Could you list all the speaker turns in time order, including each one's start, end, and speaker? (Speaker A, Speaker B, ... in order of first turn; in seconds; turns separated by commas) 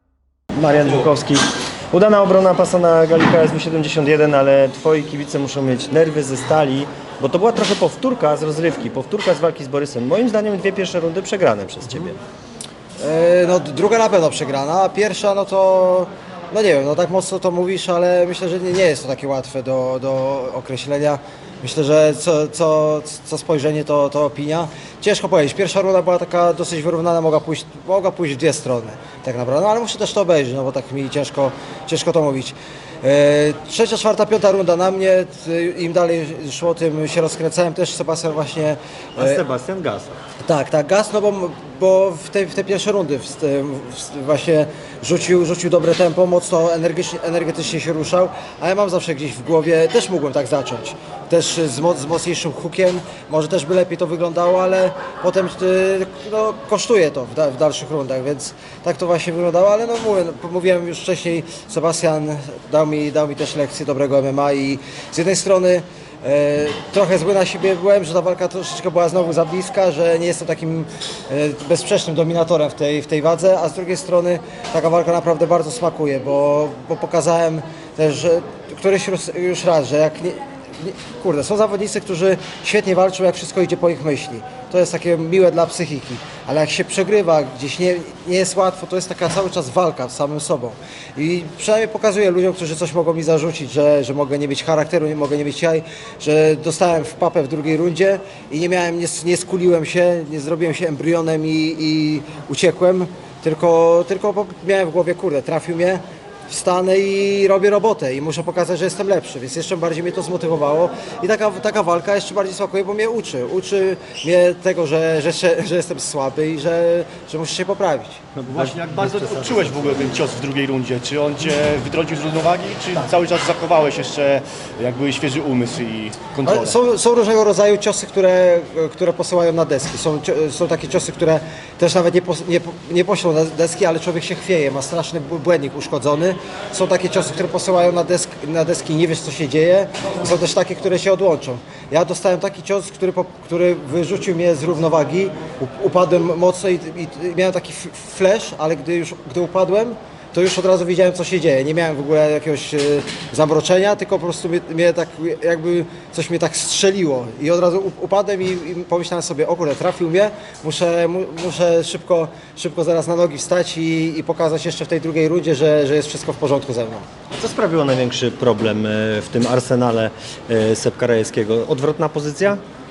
Speaker A: 0.5-12.2, Speaker B: 13.0-39.4, Speaker A: 39.2-40.2, Speaker B: 40.4-118.2, Speaker A: 118.3-119.7, Speaker C: 118.5-126.8, Speaker B: 126.4-167.1, Speaker A: 167.3-172.6